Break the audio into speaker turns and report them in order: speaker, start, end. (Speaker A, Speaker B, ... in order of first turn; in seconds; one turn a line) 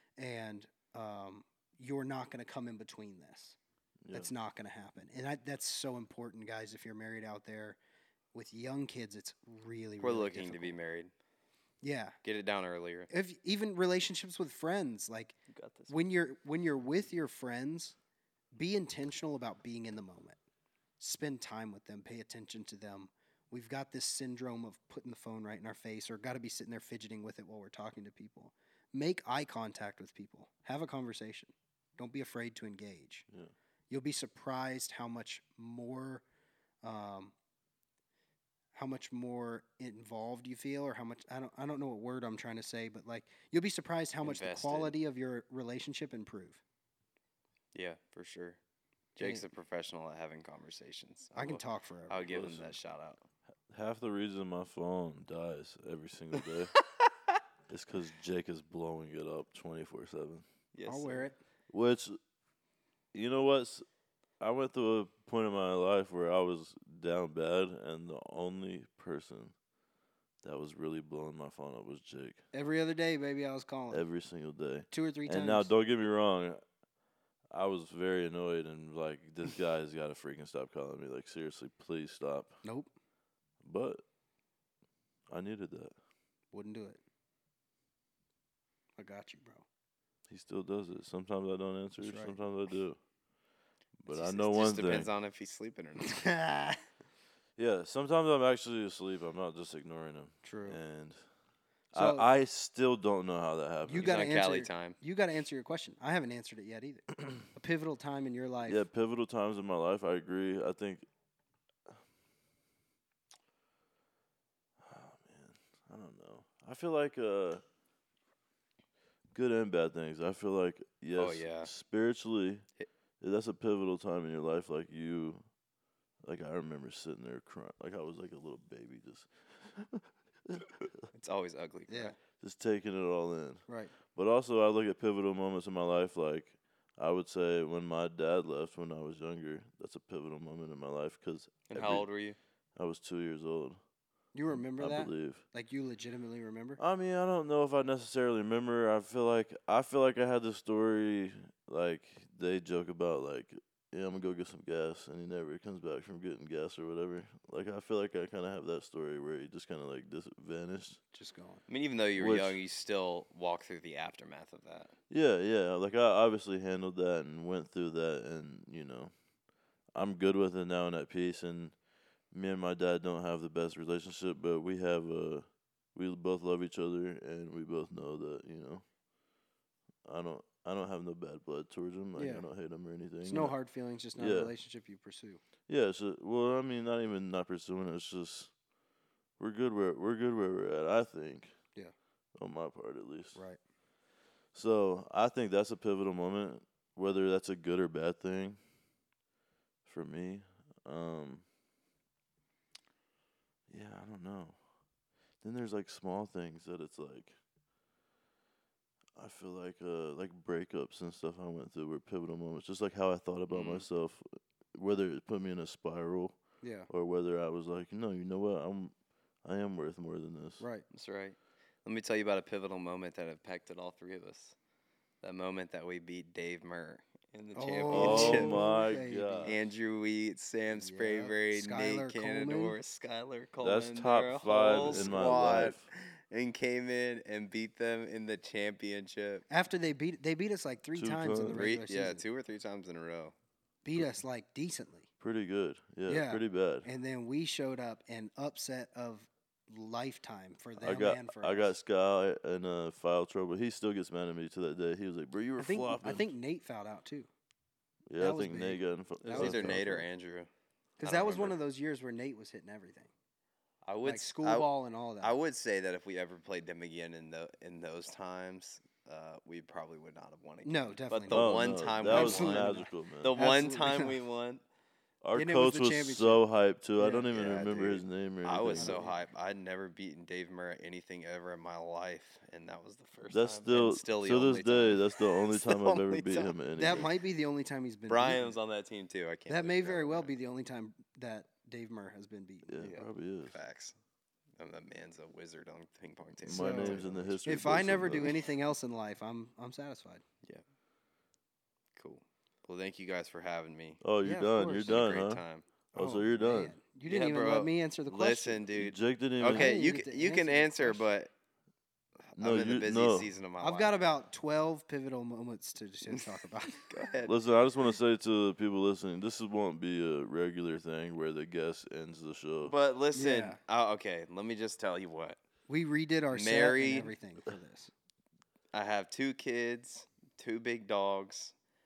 Speaker A: 0.2-3.6
Speaker B: 4.0-4.3
Speaker A: 4.1-7.8
Speaker A: 8.3-10.8
Speaker C: 10.0-11.1
Speaker A: 11.8-12.1
Speaker C: 12.2-13.1
Speaker A: 13.1-15.4
Speaker C: 15.5-15.9
Speaker A: 15.9-17.9
Speaker A: 18.5-20.4
Speaker A: 21.0-33.3
Speaker A: 33.9-36.2
Speaker A: 36.8-37.3
Speaker A: 38.7-46.6
Speaker C: 44.2-45.0
Speaker C: 47.7-48.6
Speaker C: 49.1-53.2
Speaker A: 51.3-52.4
Speaker B: 52.2-52.8
Speaker B: 53.7-56.7
Speaker B: 57.7-60.5
Speaker C: 60.7-61.3
Speaker A: 60.8-61.4
Speaker B: 61.7-62.2
Speaker B: 63.1-63.8
Speaker B: 64.4-69.5
Speaker B: 70.4-72.4
Speaker A: 72.5-74.0
Speaker B: 73.9-76.6
Speaker A: 74.9-75.7
Speaker B: 77.5-82.6
Speaker A: 82.6-82.9
Speaker B: 83.6-84.0
Speaker B: 85.3-85.9
Speaker A: 86.5-87.0
Speaker A: 89.0-89.7
Speaker B: 90.3-93.0
Speaker A: 92.0-92.4
Speaker B: 94.0-95.1
Speaker C: 94.1-96.2
Speaker A: 96.0-96.8
Speaker B: 97.6-101.2
Speaker A: 100.4-100.8
Speaker B: 101.9-104.2
Speaker A: 101.9-102.2
Speaker A: 103.8-108.8
Speaker C: 104.0-105.0
Speaker B: 108.7-111.0
Speaker B: 114.8-117.6
Speaker B: 119.3-122.7
Speaker C: 121.2-121.7
Speaker B: 123.2-125.4
Speaker B: 126.2-131.1
Speaker C: 131.1-132.1
Speaker A: 131.9-132.1
Speaker B: 132.4-142.0
Speaker A: 133.7-133.9
Speaker C: 141.7-142.4
Speaker B: 142.8-143.8
Speaker A: 144.3-146.8
Speaker B: 144.5-145.4
Speaker B: 146.8-161.0
Speaker A: 161.1-161.6
Speaker C: 161.7-164.9
Speaker B: 162.2-162.6
Speaker B: 165.1-169.1
Speaker B: 169.9-171.8
Speaker B: 172.3-178.8
Speaker B: 180.0-183.6
Speaker A: 182.2-182.5
Speaker A: 183.2-185.4
Speaker B: 184.2-184.5
Speaker B: 185.7-188.5
Speaker B: 189.4-191.5
Speaker B: 192.3-193.4
Speaker B: 194.5-198.6
Speaker B: 199.8-201.4
Speaker B: 203.7-204.6
Speaker B: 205.4-207.4
Speaker B: 209.2-216.4
Speaker C: 213.5-213.8
Speaker A: 216.6-216.9
Speaker B: 216.9-220.6
Speaker A: 220.6-220.8
Speaker C: 220.9-224.6
Speaker C: 225.2-228.7
Speaker A: 227.5-229.5
Speaker B: 227.9-229.7
Speaker C: 229.4-239.4
Speaker A: 230.7-232.8
Speaker B: 233.6-235.8
Speaker A: 234.8-235.2
Speaker A: 239.5-242.2
Speaker B: 240.9-241.7
Speaker C: 241.5-243.3
Speaker A: 243.8-245.1
Speaker B: 245.2-246.9
Speaker A: 246.1-251.8
Speaker B: 250.8-256.3
Speaker A: 255.6-257.3
Speaker B: 258.1-260.0
Speaker A: 258.2-259.9
Speaker C: 259.3-260.5
Speaker A: 261.0-263.1
Speaker C: 261.0-261.6
Speaker C: 263.8-264.7
Speaker A: 264.0-265.3
Speaker C: 265.2-274.6
Speaker A: 270.6-274.1
Speaker B: 271.3-273.4
Speaker B: 275.2-279.0
Speaker A: 275.3-276.4
Speaker A: 277.0-277.3
Speaker C: 277.3-287.1
Speaker A: 278.7-279.2
Speaker B: 283.3-287.1
Speaker A: 286.7-288.5
Speaker C: 288.1-290.3
Speaker A: 289.5-292.8
Speaker B: 292.7-293.6
Speaker C: 292.8-293.9
Speaker C: 294.6-298.4
Speaker B: 296.4-298.3
Speaker A: 296.5-300.2
Speaker C: 301.9-304.0
Speaker B: 304.0-305.4
Speaker A: 304.2-305.0
Speaker C: 304.8-305.6
Speaker A: 305.9-308.6
Speaker B: 305.9-306.8
Speaker C: 307.0-311.3
Speaker B: 308.7-309.8
Speaker A: 309.5-311.0
Speaker C: 312.3-314.1
Speaker B: 312.4-313.3
Speaker A: 313.6-316.9
Speaker C: 316.1-317.4
Speaker B: 317.2-322.7
Speaker C: 322.6-325.4
Speaker A: 323.1-323.6
Speaker A: 325.7-327.9
Speaker C: 326.3-327.1
Speaker C: 328.7-331.5